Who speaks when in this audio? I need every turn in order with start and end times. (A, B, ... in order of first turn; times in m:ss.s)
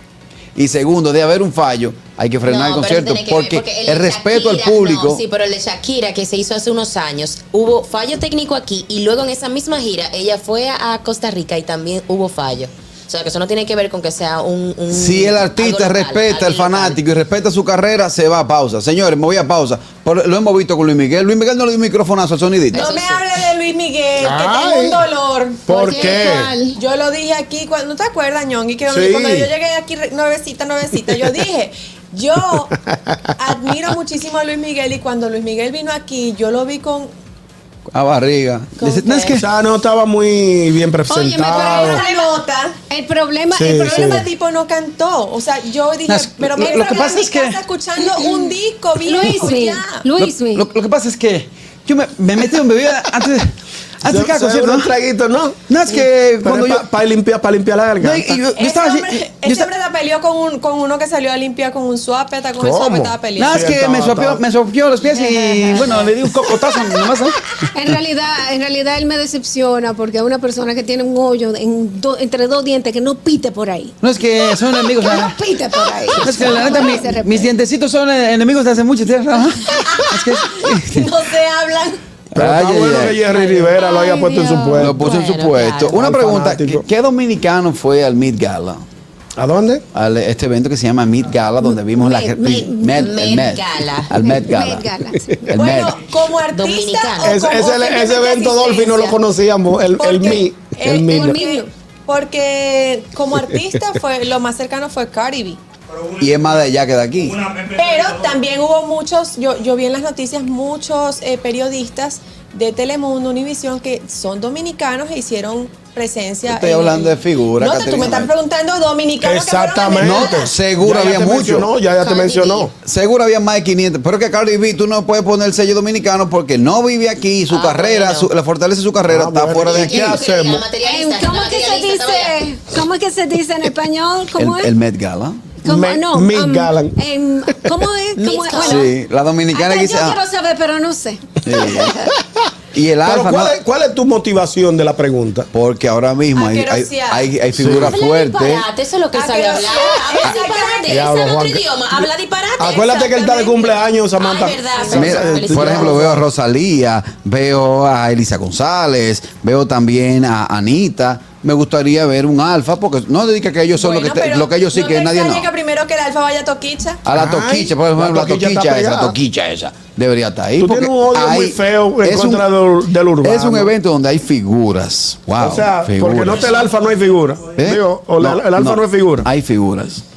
0:00.6-0:05.2 A
0:02.4-0:17.0 B
0:14.9-0:23.1 A
0:22.7-0:32.8 C
0:22.7-0:23.0 B
0:24.2-0:25.0 D
0:25.7-0:26.5 D
0:25.7-0:26.8 E
0:28.9-0:29.5 D
0:32.9-0:33.2 D
0:33.4-0:37.1 C
0:37.9-0:39.5 A
0:38.8-0:39.3 C
0:39.2-0:42.0 D
0:41.1-0:42.2 E
0:41.4-0:42.8 C
0:42.9-0:44.2 E
0:43.5-0:44.2 D
0:43.8-0:50.0 C
0:46.1-0:47.6 A
0:49.0-0:50.7 E
0:50.2-0:54.9 A
0:54.0-0:55.6 D
0:55.7-0:56.9 A
0:56.4-0:58.4 D
0:58.0-0:59.7 A
0:58.5-1:03.7 C
1:02.6-1:04.4 D
1:03.4-1:07.4 A
1:07.7-1:17.6 E
1:14.0-1:15.4 A
1:16.1-1:21.1 A
1:16.2-1:16.7 B
1:19.9-1:22.0 C
1:22.3-1:23.2 A
1:22.3-1:25.1 D
1:23.3-1:26.0 B
1:24.8-1:28.8 A
1:26.0-1:26.8 D
1:29.4-1:29.8 D
1:29.9-1:34.9 A
1:31.6-1:33.1 E
1:33.0-1:34.1 B
1:34.2-1:35.5 E
1:35.5-1:36.0 A
1:35.5-1:39.1 C
1:36.5-1:37.4 B
1:37.2-1:41.4 D
1:40.0-1:45.6 C
1:41.1-1:41.7 E
1:45.9-1:46.5 D
1:46.2-1:47.4 A
1:47.2-1:48.4 D
1:47.7-2:00.5 C
1:56.4-1:58.3 A
1:59.2-2:02.7 D
2:00.0-2:01.7 A
2:01.9-2:02.7 B
2:02.8-2:10.2 A
2:07.5-2:08.3 B
2:09.1-2:10.7 D
2:09.6-2:12.4 B
2:10.8-2:14.7 E
2:14.4-2:15.5 A
2:15.6-2:18.9 E
2:15.6-2:17.0 D
2:18.2-2:18.8 B
2:18.6-2:20.2 A
2:19.5-2:22.0 E
2:21.4-2:22.1 A
2:22.7-2:23.6 A
2:23.0-2:25.5 D
2:25.5-2:28.7 A
2:26.4-2:27.3 C
2:27.5-2:28.0 D
2:27.8-2:36.2 B
2:29.1-2:31.2 C
2:30.9-2:31.7 D
2:32.6-2:33.7 C
2:32.6-2:36.2 D
2:34.8-2:35.1 C
2:34.9-2:45.5 A
2:43.8-2:47.0 C
2:47.0-2:52.5 A
2:47.1-2:49.2 D
2:50.6-2:53.7 D
2:53.2-2:56.5 A
2:55.4-2:59.3 D
2:57.6-3:00.0 A